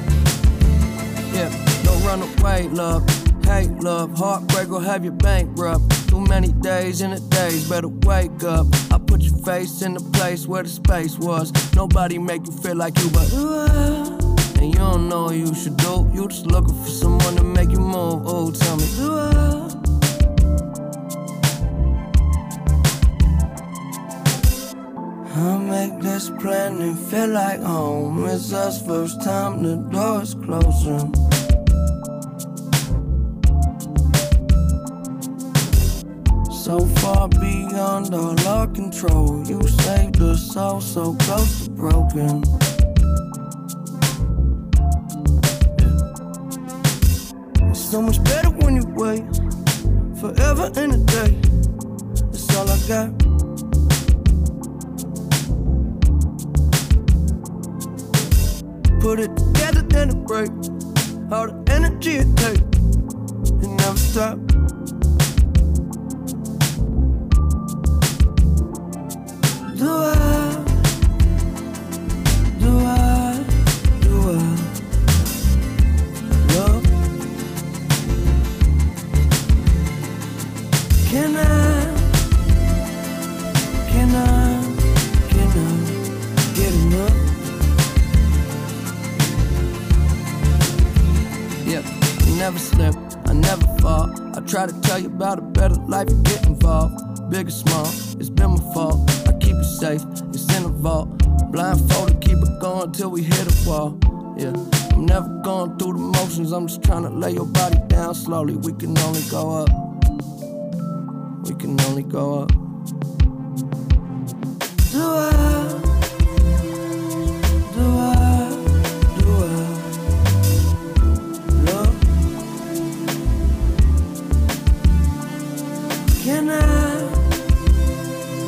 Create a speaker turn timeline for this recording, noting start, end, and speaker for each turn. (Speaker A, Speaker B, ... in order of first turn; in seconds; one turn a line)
Speaker A: 1.3-19.8
Speaker A: 25.3-31.2
Speaker A: 36.5-42.5
Speaker A: 47.7-49.3
Speaker A: 50.1-51.4
Speaker A: 52.3-53.2
Speaker A: 59.0-60.6
Speaker A: 61.3-62.7
Speaker A: 63.6-64.5
Speaker A: 69.7-70.8
Speaker A: 72.5-74.7
Speaker A: 76.4-76.9
Speaker A: 81.0-82.1
Speaker A: 83.8-86.0
Speaker A: 86.5-87.3
Speaker A: 91.6-109.8
Speaker A: 111.4-112.5
Speaker A: 114.8-116.0
Speaker A: 117.7-120.0
Speaker A: 121.5-122.1
Speaker A: 126.2-127.4